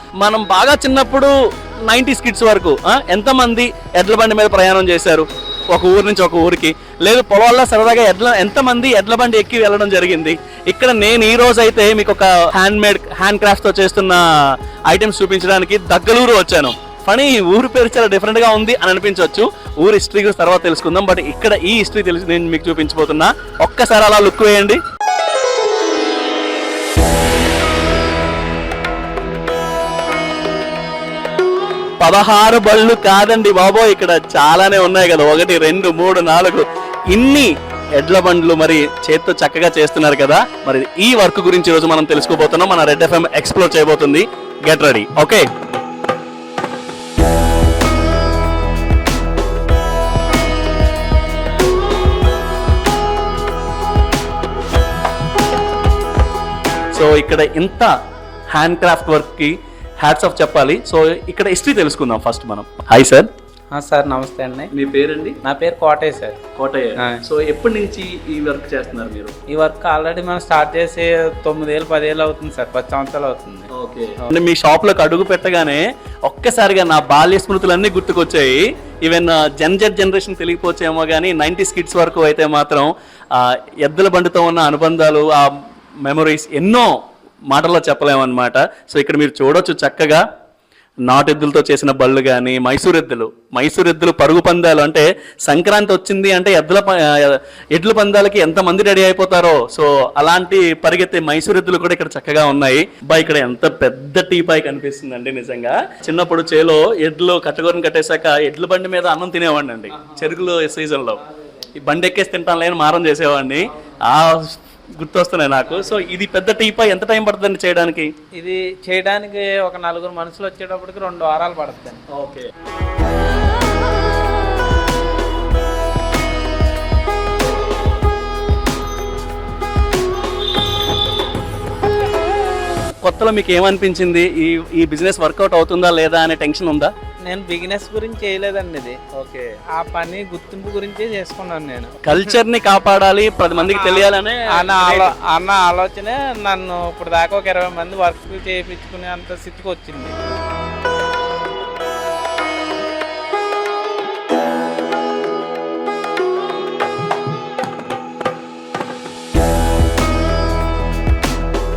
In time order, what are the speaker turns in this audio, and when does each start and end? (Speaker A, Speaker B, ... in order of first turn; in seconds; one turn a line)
Speaker A: 0.2-1.3
Speaker A: 1.8-14.2
Speaker A: 14.9-24.8
Speaker A: 32.0-45.5
Speaker A: 56.9-57.9
Speaker A: 58.5-63.3
Speaker B: 63.7-64.7
Speaker A: 64.7-65.4
Speaker B: 65.4-66.4
Speaker A: 66.5-69.3
Speaker B: 69.5-73.7
Speaker A: 73.7-85.5
Speaker A: 86.0-86.9
Speaker A: 87.5-90.2
Speaker A: 91.1-111.2
Speaker B: 110.0-110.3
Speaker A: 111.7-118.1
Speaker B: 118.4-122.0
Speaker A: 122.1-122.5
Speaker A: 133.0-136.9
Speaker B: 137.3-139.2
Speaker B: 139.7-142.0
Speaker A: 142.0-145.1
Speaker B: 143.6-150.1